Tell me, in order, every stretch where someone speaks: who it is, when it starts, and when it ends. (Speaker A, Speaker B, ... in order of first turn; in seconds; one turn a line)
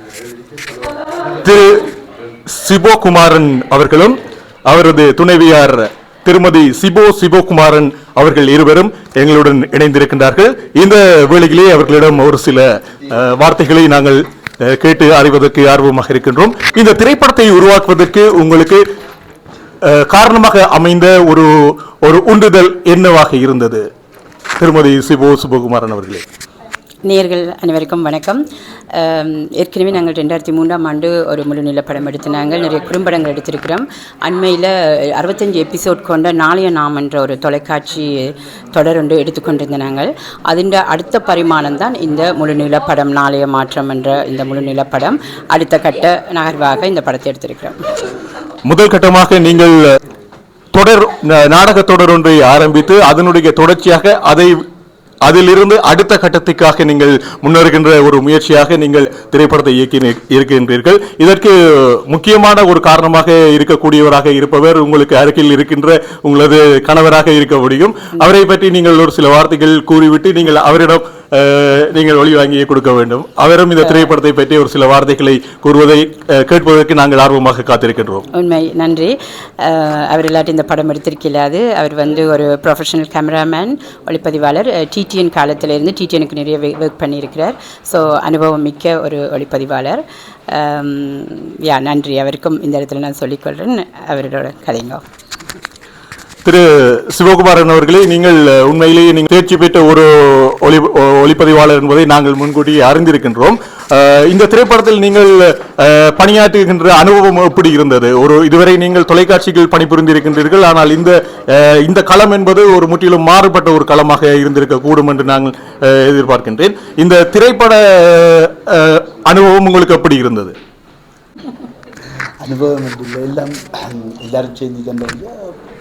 Speaker A: 1.4-1.9
Speaker A: 2.5-18.8
Speaker A: 19.8-23.9
Speaker A: 24.6-26.2
Speaker B: 27.0-28.4
Speaker B: 28.9-47.8
Speaker A: 48.6-49.8
Speaker A: 50.7-54.6
Speaker A: 55.2-78.2
Speaker B: 73.8-74.1
Speaker B: 78.3-95.0
Speaker A: 96.4-120.5
Speaker C: 122.4-125.5